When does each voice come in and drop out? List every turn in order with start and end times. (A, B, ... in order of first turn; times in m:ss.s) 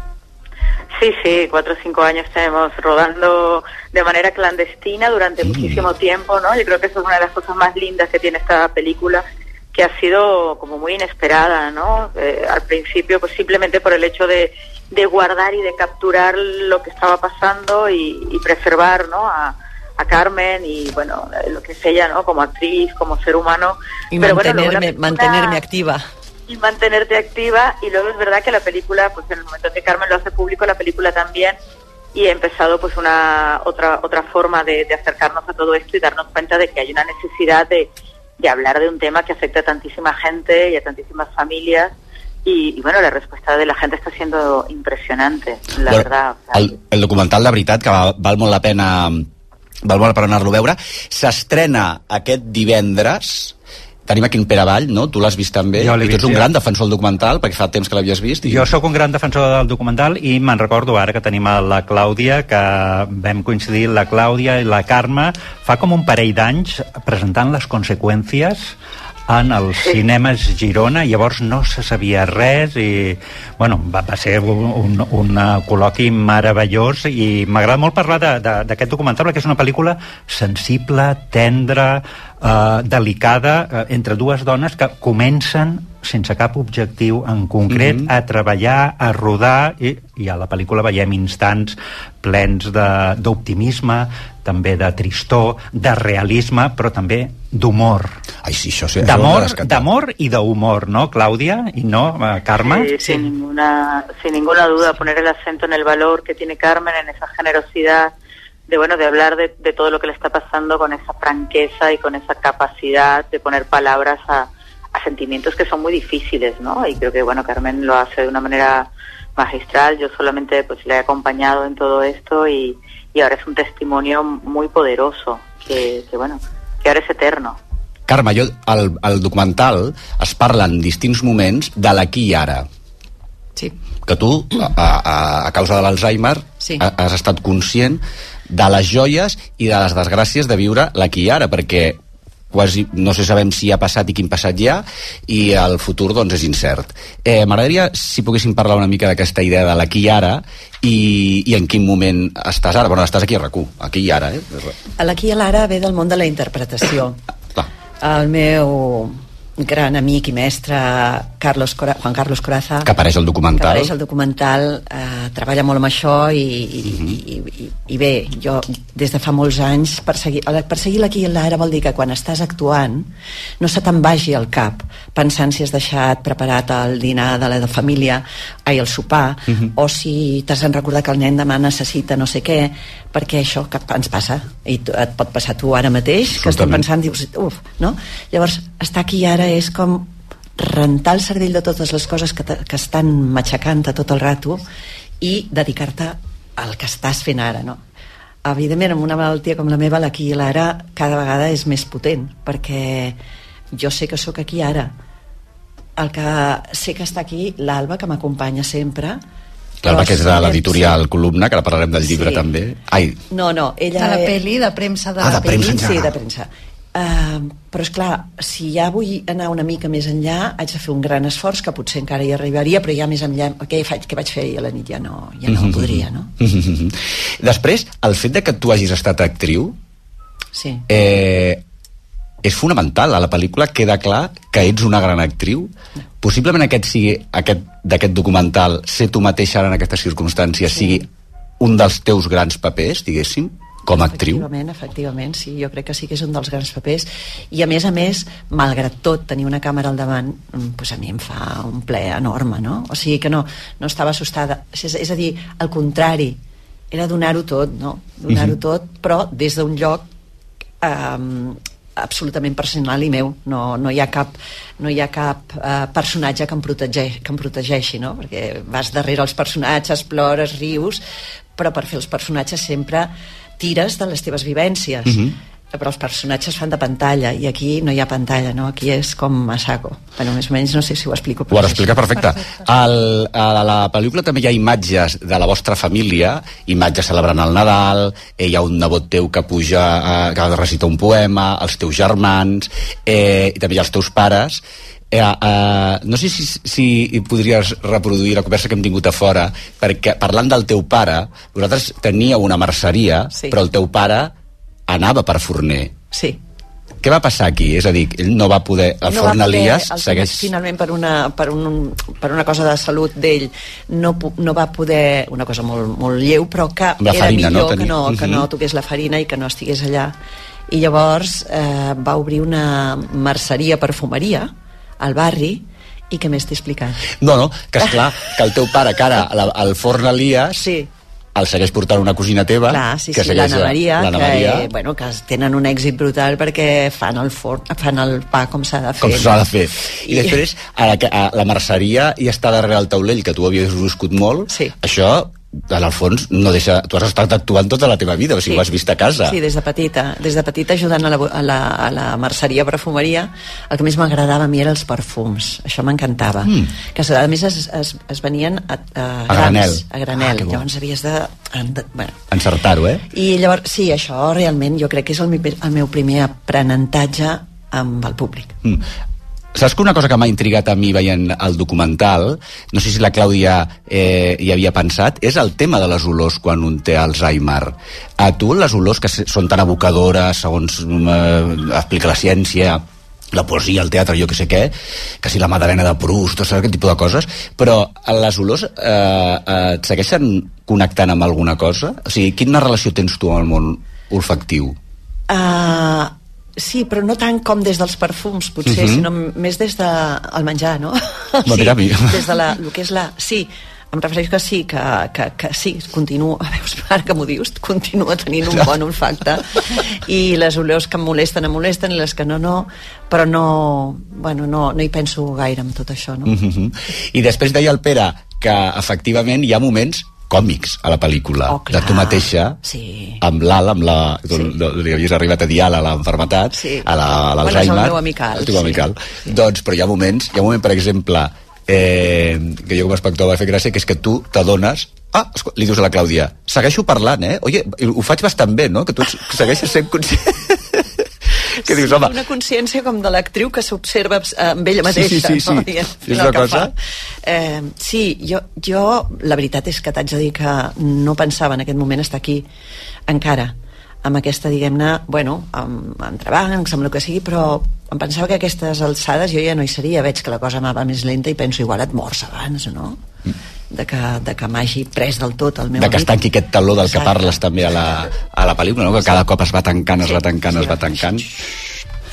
0:01.0-0:25.6 A
0:05.4-0:05.9 B
0:24.1-0:26.0 C
0:26.5-0:31.6 A
0:32.1-0:41.9 A
0:42.4-0:46.7 A
0:45.9-0:49.3 B
0:49.8-0:53.6 B
0:54.1-0:58.8 B
0:55.8-0:56.5 D
0:58.4-1:08.8 D
1:09.3-1:38.2 D
1:27.7-1:28.1 B
1:38.4-1:39.9 B
1:39.0-1:43.3 D
1:42.6-1:48.1 A
1:48.7-2:07.6 A
2:08.1-2:12.7 B
2:14.1-2:22.0 B
2:16.6-2:16.8 C
2:22.5-2:34.8 B
2:35.0-2:37.2 C
2:38.0-2:42.9 C
2:42.8-2:43.9 B
2:43.6-3:14.6 C
2:46.8-2:47.2 B
3:06.3-3:06.8 B
3:15.2-3:17.8 C
3:18.4-3:23.2 C
3:23.7-3:25.0 C
3:26.0-3:29.2 C
3:29.8-3:33.2 B
3:29.9-3:31.0 C
3:32.1-3:32.4 C
3:33.3-3:34.4 C
3:34.0-3:35.8 E
3:35.2-3:36.1 B
3:35.2-3:46.3 C
3:45.5-3:49.8 B
3:50.6-3:50.8 C
3:50.9-3:51.6 B
3:52.4-4:01.1 B
4:00.7-4:01.0 C
4:01.6-4:04.4 B
4:03.9-4:16.4 C
4:16.9-4:20.1 C
4:18.3-4:18.6 B
4:20.8-4:31.0 C
4:31.6-4:42.1 C
4:35.1-4:35.4 B
4:41.5-5:04.3 B
4:42.2-4:42.5 E
5:04.9-5:05.9 B
5:06.1-5:06.4 C
5:07.0-5:10.5 B
5:09.0-5:20.2 C
5:17.0-5:18.5 B
5:20.7-5:27.1 C
5:27.2-5:30.6 B
5:30.6-5:30.9 C
5:31.4-5:34.7 B
5:32.7-5:39.5 C
5:39.0-5:49.4 B
5:40.1-5:40.4 C
5:44.5-5:44.7 C
5:49.2-6:02.2 C
5:56.4-5:56.7 B
5:59.3-6:00.6 B
6:02.3-6:03.0 B
6:03.1-6:08.6 C
6:09.6-6:34.8 B
6:35.3-6:56.3 C
6:38.6-6:39.1 B
6:41.4-6:42.3 B
6:56.2-7:02.6 B
7:01.5-7:03.2 C
7:03.2-7:20.9 B
7:06.5-7:06.9 C
7:07.4-7:08.8 C
7:21.6-7:22.2 B
7:21.7-7:26.7 C
7:24.8-7:26.7 B
7:27.2-7:32.5 C
7:33.1-7:43.0 C
7:43.7-7:46.2 C
7:45.8-7:51.3 B
7:46.7-7:47.4 C
7:50.0-7:51.3 C